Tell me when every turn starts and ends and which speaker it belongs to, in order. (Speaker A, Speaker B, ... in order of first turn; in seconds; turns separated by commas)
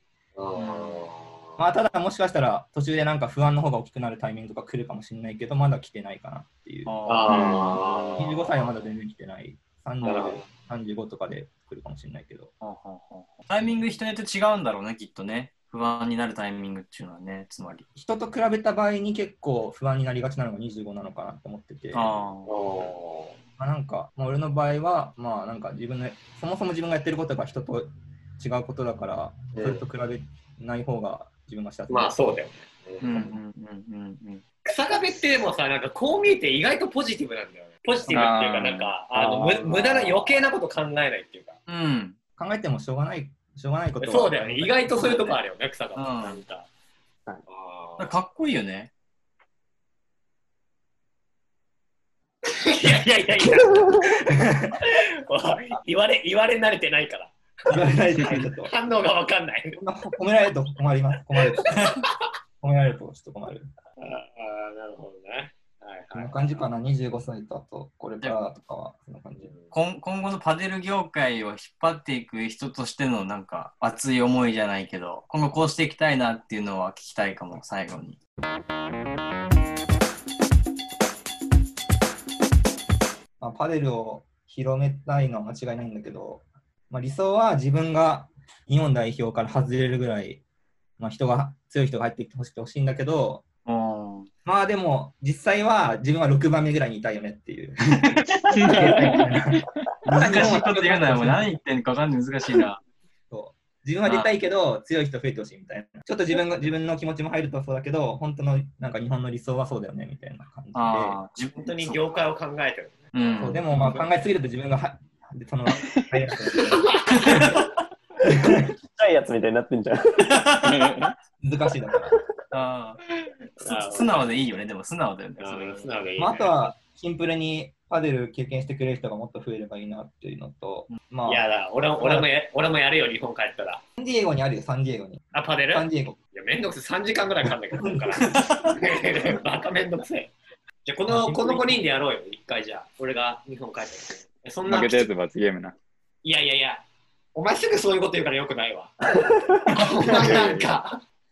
Speaker A: 0.4-1.6, Speaker B: 0.5-1.0, Speaker C: 1.6-7.0, Speaker B: 6.9-7.8, Speaker A: 7.1-8.5, Speaker C: 8.2-12.5, Speaker B: 10.0-10.3, Speaker A: 10.0-10.4, Speaker B: 12.6-17.9, Speaker C: 18.0-22.1, Speaker B: 21.9-22.5, Speaker A: 22.5-23.4, Speaker C: 23.6-32.2, Speaker A: 29.6-29.8, Speaker A: 31.9-33.2, Speaker B: 33.0-34.4, Speaker A: 34.6-41.6, Speaker D: 38.1-38.9, Speaker E: 39.1-40.4, Speaker B: 41.7-42.2, Speaker C: 42.4-45.4, Speaker A: 44.0-46.7, Speaker B: 46.0-46.4, Speaker A: 47.5-48.1, Speaker B: 48.0-48.9, Speaker A: 52.5-57.8, Speaker C: 54.3-54.8, Speaker C: 57.7-58.7, Speaker A: 58.4-59.8, Speaker C: 59.8-61.9, Speaker A: 61.4-62.1, Speaker C: 62.6-63.7, Speaker A: 64.0-66.6, Speaker C: 66.1-69.5, Speaker A: 69.4-69.7, Speaker B: 69.7-78.2, Speaker C: 83.4-90.4, Speaker C: 91.0-93.5, Speaker B: 93.7-94.3, Speaker C: 94.5-101.5, Speaker B: 97.9-99.2, Speaker D: 98.6-99.2, Speaker B: 100.0-102.8, Speaker C: 103.3-111.2, Speaker B: 104.0-104.3, Speaker B: 110.8-112.0, Speaker A: 111.6-113.9, Speaker B: 113.1-114.0, Speaker C: 113.4-117.0, Speaker B: 117.1-117.5, Speaker C: 118.2-118.7, Speaker E: 118.5-120.7, Speaker B: 120.3-120.7, Speaker D: 120.7-121.1, Speaker C: 121.4-122.2, Speaker B: 122.5-123.0, Speaker A: 123.6-124.1, Speaker B: 123.7-125.9, Speaker A: 125.4-126.5, Speaker C: 126.2-131.4, Speaker A: 131.3-133.8, Speaker C: 132.0-132.3, Speaker C: 134.0-136.2, Speaker A: 135.3-140.3, Speaker C: 137.8-138.2, Speaker B: 138.3-138.8, Speaker A: 140.8-145.1, Speaker C: 141.1-141.8, Speaker D: 144.7-145.8, Speaker A: 146.2-146.8, Speaker A: 147.3-151.0